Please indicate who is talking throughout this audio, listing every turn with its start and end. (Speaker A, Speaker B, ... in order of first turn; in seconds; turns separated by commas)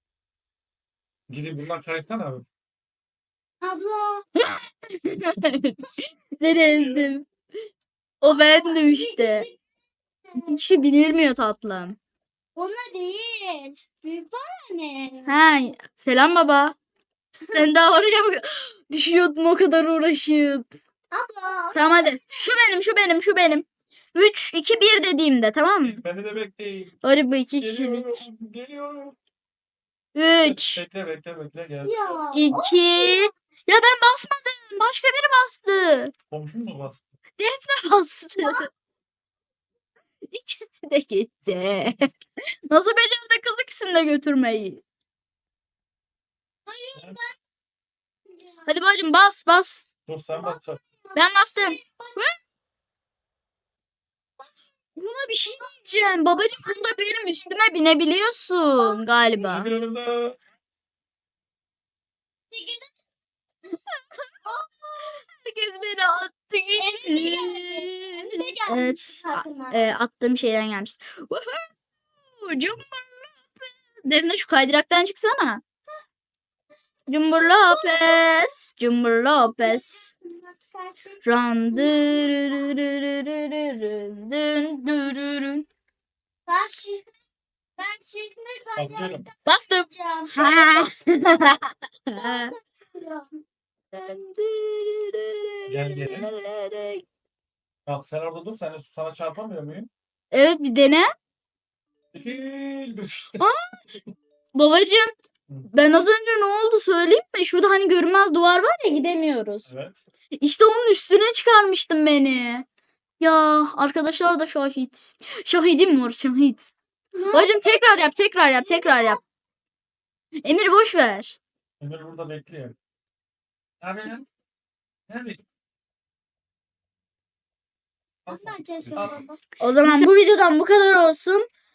Speaker A: 1.3-2.5, Speaker B: 3.6-4.2, Speaker C: 4.4-7.3, Speaker A: 6.5-7.1, Speaker C: 8.2-9.4, Speaker B: 8.6-9.6, Speaker B: 10.3-10.6, Speaker C: 10.4-12.0, Speaker B: 12.6-15.3, Speaker C: 15.2-16.8, Speaker C: 17.5-20.7, Speaker B: 21.1-22.0, Speaker C: 21.7-26.0, Speaker A: 25.8-26.9, Speaker C: 27.0-28.3, Speaker A: 27.6-29.2, Speaker C: 30.1-30.8, Speaker A: 30.4-32.0, Speaker B: 31.8-33.3, Speaker C: 32.3-36.1, Speaker A: 36.3-37.1, Speaker C: 37.4-38.7, Speaker C: 40.3-42.1, Speaker C: 42.7-44.8, Speaker B: 46.7-47.4, Speaker A: 46.9-47.2, Speaker B: 48.4-48.6, Speaker C: 48.6-49.9, Speaker A: 50.0-50.8, Speaker B: 50.3-52.2, Speaker C: 51.1-52.3, Speaker C: 55.0-59.7, Speaker A: 59.4-60.4, Speaker B: 62.5-62.9, Speaker C: 64.2-71.7, Speaker B: 66.8-69.8, Speaker C: 72.3-75.6, Speaker C: 77.1-80.1, Speaker B: 77.7-78.1, Speaker B: 79.6-81.2, Speaker C: 81.2-85.6, Speaker B: 81.7-82.3, Speaker B: 86.5-87.1, Speaker B: 87.8-90.9, Speaker A: 88.8-89.3, Speaker C: 89.5-92.5, Speaker B: 92.1-93.3, Speaker C: 93.9-97.0, Speaker A: 95.7-96.3, Speaker A: 97.8-99.9, Speaker C: 100.3-101.1, Speaker A: 102.1-103.5, Speaker C: 103.4-103.7, Speaker C: 104.5-105.1, Speaker C: 105.7-109.7, Speaker A: 109.7-110.0, Speaker C: 110.4-112.7, Speaker C: 113.2-116.7, Speaker B: 117.1-117.8, Speaker C: 117.3-119.2, Speaker B: 118.6-119.2, Speaker C: 120.4-121.4, Speaker A: 121.8-122.8, Speaker A: 123.8-124.2, Speaker A: 125.1-125.4, Speaker A: 128.3-129.2, Speaker B: 128.3-129.4, Speaker C: 129.6-131.4